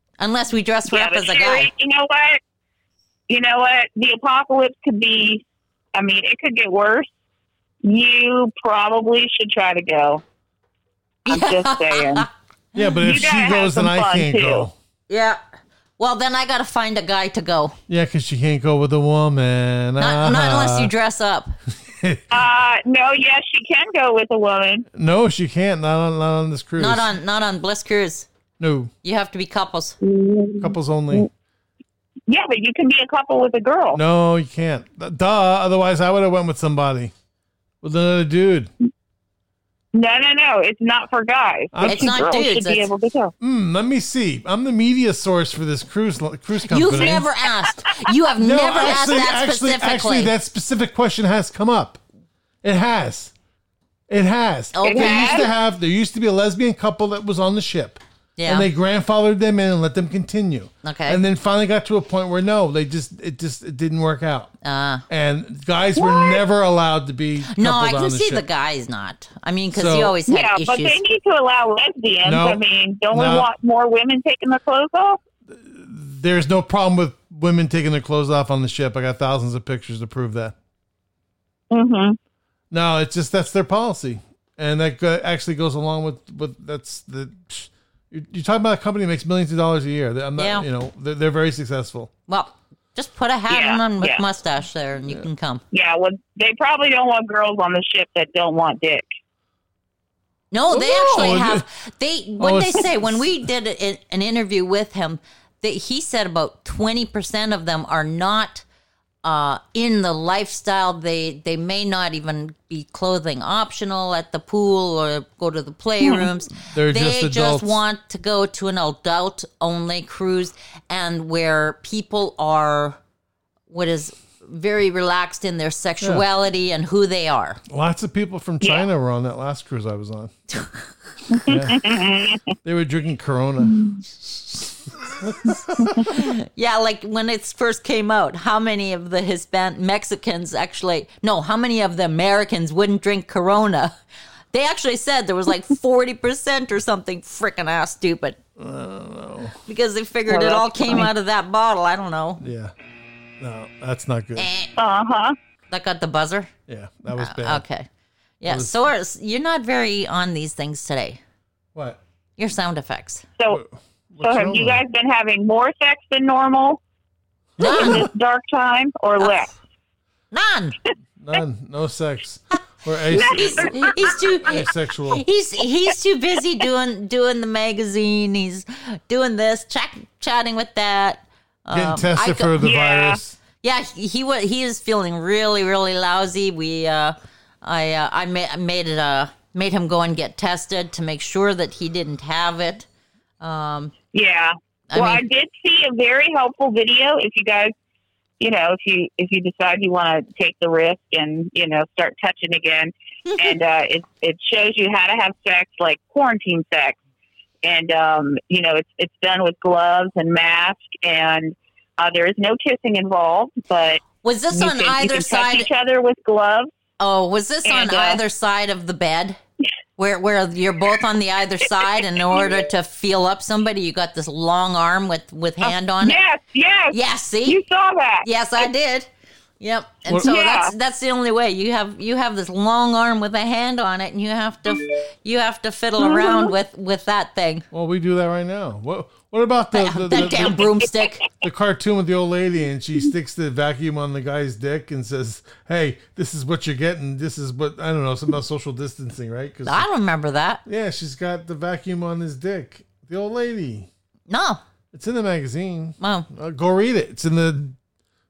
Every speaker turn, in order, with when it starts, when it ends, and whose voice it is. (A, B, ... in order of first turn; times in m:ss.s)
0:00.2-0:01.7 A
0:00.9-0:02.4 B
0:03.3-0:05.4 B
0:05.9-0:07.1 B
0:07.8-0:10.2 B
0:11.3-0:12.3 B
0:11.3-0:12.3 A
0:12.7-0:14.8 C
0:13.0-0:14.7 B
0:15.1-0:15.4 A
0:16.0-0:17.8 A
0:17.9-0:20.9 C
0:20.0-0:21.5 A
0:21.8-0:22.3 C
0:22.3-0:24.8 B
0:24.9-0:27.1 C
0:26.8-0:28.3 A
0:28.6-0:28.9 C
0:29.0-0:30.0 A
0:30.0-0:31.3 B
0:30.6-0:31.3 C
0:32.3-0:34.0 B
0:33.9-0:37.1 C
0:37.8-0:38.7 C
0:39.9-0:43.3 B
0:41.7-0:42.3 C
0:41.8-0:42.9 A
0:43.4-0:47.2 C
0:46.6-0:50.3 A
0:48.4-0:52.0 C
0:52.6-0:53.3 C
0:54.1-1:04.5 C
0:54.7-0:55.5 A
0:54.8-0:55.5 B
0:58.4-0:58.7 A
1:00.8-1:01.2 A
1:04.6-1:05.0 A
1:05.1-1:08.4 C
1:06.0-1:06.4 B
1:07.5-1:11.0 A
1:09.7-1:10.2 C
1:10.2-1:15.2 B
1:12.2-1:13.5 C
1:15.5-1:20.5 C
1:21.7-1:22.2 B
1:22.7-1:32.1 C
1:30.4-1:30.7 A
1:32.3-1:35.6 A
1:33.5-1:34.2 B
1:35.7-1:39.0 B
1:40.5-1:48.6 A
1:40.7-1:41.6 C
1:42.4-1:43.3 C
1:49.2-2:03.0 A
1:56.2-1:57.8 C
2:03.7-2:07.6 A
2:07.7-2:10.3 C
2:11.3-2:12.4 B
2:11.4-2:11.9 C
2:12.6-2:13.9 C
2:15.1-2:16.2 C
2:16.0-2:23.9 A
2:24.5-2:28.4 A
2:28.6-2:29.6 C
2:29.6-2:32.4 A
2:30.3-2:31.1 B
2:32.4-2:32.7 C
2:33.4-2:34.5 C
2:34.4-2:34.7 A
2:34.8-2:35.3 B
2:35.7-2:36.5 A
2:36.7-2:37.6 C
2:37.1-2:37.9 A
2:38.4-2:41.2 A
2:38.4-2:38.7 C
2:41.7-2:42.0 C
2:42.4-2:43.2 A
2:43.5-2:44.8 C
2:44.2-2:46.8 B
2:47.6-2:48.1 C
2:47.6-2:48.0 A
2:47.6-2:49.5 B
2:50.3-2:50.8 A
2:51.2-2:55.2 C
2:53.1-2:54.0 B
2:53.2-3:02.5 A
3:01.7-3:03.4 C
3:02.6-3:03.2 B
3:03.6-3:12.9 A
3:13.4-3:13.9 A
3:14.1-3:17.7 B
3:14.9-3:15.2 A
3:18.4-3:27.0 B
3:27.6-3:36.7 B
3:34.2-3:35.7 A
3:37.0-3:39.4 A
3:37.6-3:38.2 B
3:40.0-3:46.2 A
3:45.6-3:48.2 B
3:46.9-3:47.6 A
3:48.2-3:49.1 A
3:49.6-3:57.6 A
3:50.2-3:50.7 B
3:56.0-3:56.5 B
3:57.7-4:00.8 C
3:59.7-4:01.2 A
4:01.4-4:09.9 C
4:09.6-4:10.6 A
4:10.6-4:13.9 C
4:14.3-4:14.6 A
4:14.9-4:17.8 C
4:16.0-4:16.3 A